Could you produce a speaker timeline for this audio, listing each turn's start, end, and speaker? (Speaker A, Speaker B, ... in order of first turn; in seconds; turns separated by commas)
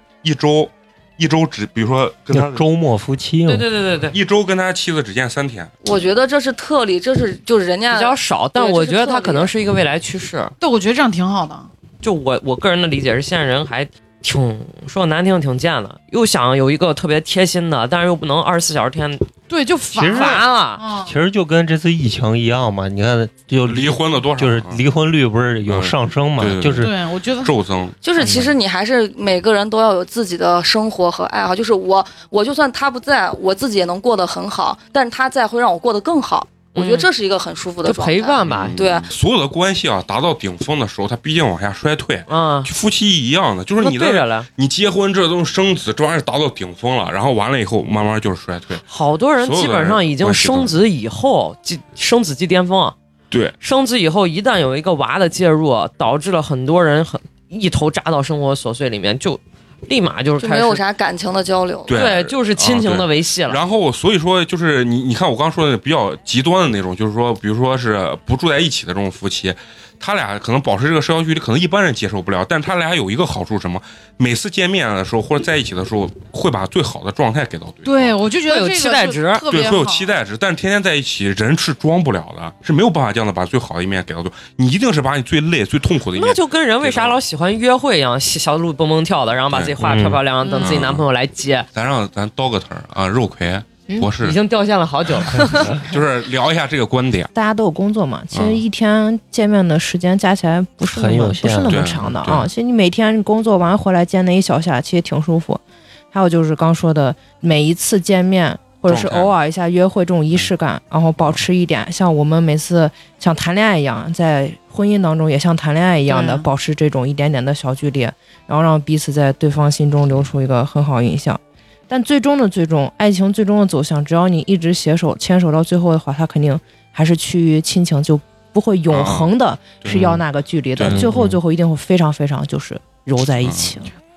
Speaker A: 0.2-2.6, Speaker B: 2.3-3.7, Speaker C: 3.5-4.2, Speaker A: 4.1-5.7, Speaker D: 5.8-9.5, Speaker C: 7.9-10.5, Speaker E: 10.6-11.7, Speaker C: 12.0-19.2, Speaker E: 19.5-21.1, Speaker B: 19.9-20.4, Speaker C: 20.0-20.8, Speaker B: 21.0-26.9, Speaker A: 23.6-24.8, Speaker A: 25.7-28.5, Speaker E: 26.8-27.5, Speaker D: 28.0-39.1, Speaker B: 28.2-28.5, Speaker C: 36.7-37.1, Speaker C: 37.8-38.8, Speaker A: 38.5-48.8, Speaker C: 42.3-42.7, Speaker C: 43.8-44.5, Speaker C: 48.9-52.9, Speaker A: 49.4-50.8, Speaker C: 53.6-60.8, Speaker D: 60.4-62.0, Speaker A: 61.9-78.2, Speaker C: 61.9-63.6, Speaker E: 77.8-80.1, Speaker C: 78.5-79.4, Speaker A: 79.5-87.2, Speaker C: 86.1-91.7, Speaker A: 89.5-89.8, Speaker B: 89.8-90.2, Speaker E: 90.4-90.8, Speaker A: 90.6-91.0, Speaker A: 91.7-94.3, Speaker C: 94.2-95.7, Speaker A: 95.7-97.3, Speaker F: 97.3-133.9, Speaker A: 98.3-98.6, Speaker B: 100.9-102.0, Speaker A: 101.7-102.5, Speaker A: 108.9-109.3, Speaker E: 116.1-116.4, Speaker A: 128.9-130.2, Speaker A: 130.8-131.1, Speaker B: 130.8-131.4, Speaker A: 133.4-133.7